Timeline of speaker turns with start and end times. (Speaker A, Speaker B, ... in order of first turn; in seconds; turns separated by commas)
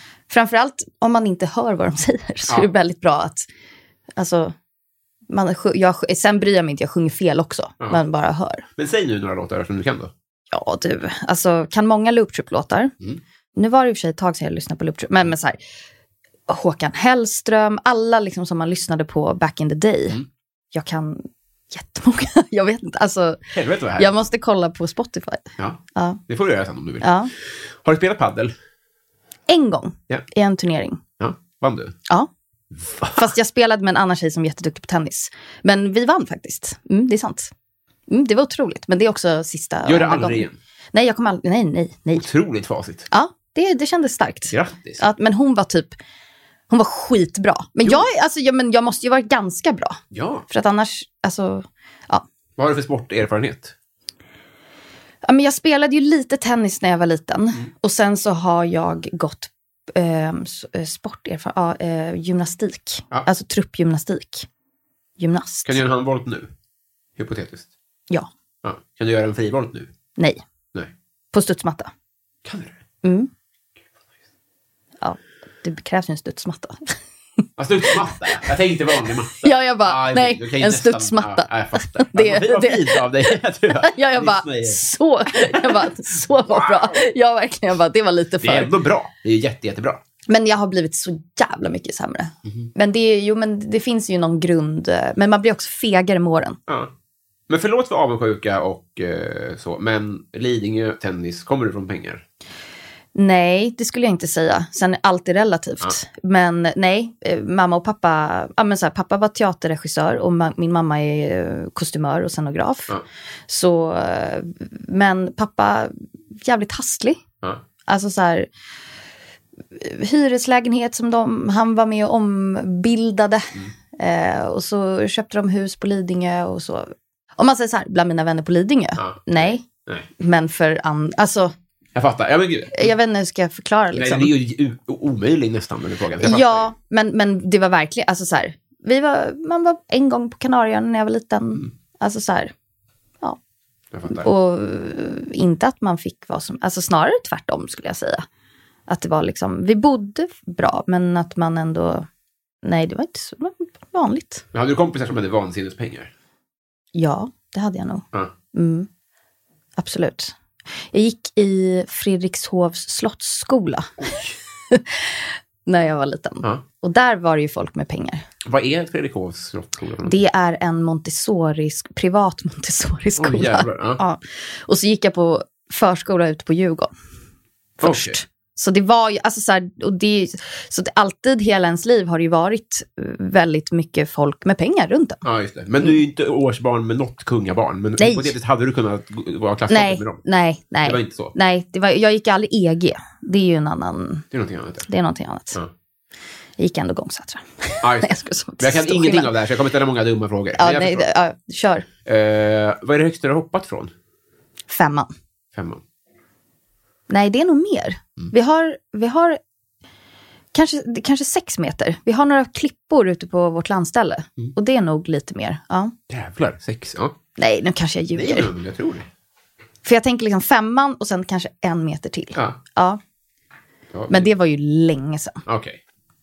Speaker A: 0.3-3.5, Speaker A: 4.2-4.5, Speaker A: 5.3-8.6, Speaker B: 8.8-10.1, Speaker A: 10.5-12.9, Speaker A: 13.5-15.6, Speaker A: 16.5-20.2, Speaker A: 20.7-26.2, Speaker B: 23.5-24.1, Speaker B: 25.6-28.5, Speaker A: 27.0-27.3, Speaker A: 29.5-31.0, Speaker B: 31.2-31.9, Speaker B: 32.8-33.2, Speaker A: 33.1-37.5, Speaker A: 38.1-42.3, Speaker B: 39.8-40.6, Speaker B: 42.1-43.1, Speaker A: 43.1-46.0, Speaker B: 44.5-45.0, Speaker A: 46.7-52.2, Speaker B: 50.1-50.5, Speaker B: 52.6-53.7, Speaker A: 55.2-64.5, Speaker A: 65.2-65.8, Speaker B: 65.6-66.5, Speaker B: 67.2-67.7, Speaker B: 68.6-69.9, Speaker A: 71.3-71.9, Speaker B: 72.4-72.8, Speaker A: 73.0-73.3, Speaker A: 75.0-77.0, Speaker B: 77.6-87.0, Speaker A: 79.4-88.7, Speaker B: 88.4-90.0, Speaker A: 90.3-96.6, Speaker B: 96.7-96.9, Speaker B: 97.5-102.2, Speaker A: 103.1-113.0, Speaker A: 113.5-117.2, Speaker A: 117.8-118.5, Speaker A: 119.8-129.7, Speaker B: 129.0-130.1, Speaker A: 130.2-131.5, Speaker B: 131.9-132.9, Speaker A: 132.7-134.3, Speaker B: 133.9-136.7, Speaker A: 136.2-142.5, Speaker B: 143.9-144.3, Speaker A: 144.1-148.2, Speaker A: 148.9-152.1, Speaker A: 152.6-154.4, Speaker B: 154.5-156.1, Speaker A: 156.9-158.9, Speaker A: 159.8-160.3, Speaker A: 160.9-164.1, Speaker B: 164.0-164.3, Speaker A: 164.7-168.2, Speaker B: 168.4-170.2, Speaker A: 170.0-176.9, Speaker B: 173.2-174.0, Speaker B: 177.8-178.2, Speaker A: 177.8-185.2, Speaker B: 185.2-190.2, Speaker A: 188.0-188.3, Speaker A: 189.7-194.2, Speaker B: 190.8-191.3, Speaker B: 194.3-194.9, Speaker A: 194.9-195.6, Speaker A: 196.6-199.3, Speaker B: 197.8-201.1, Speaker A: 200.6-201.8, Speaker B: 202.0-203.9, Speaker A: 204.7-205.1, Speaker B: 205.5-205.8, Speaker A: 207.1-209.4, Speaker A: 210.5-215.9, Speaker B: 216.1-217.2, Speaker A: 217.4-218.5, Speaker B: 218.1-219.1, Speaker A: 219.8-223.0, Speaker B: 223.9-224.3, Speaker A: 224.1-225.4, Speaker B: 225.4-225.8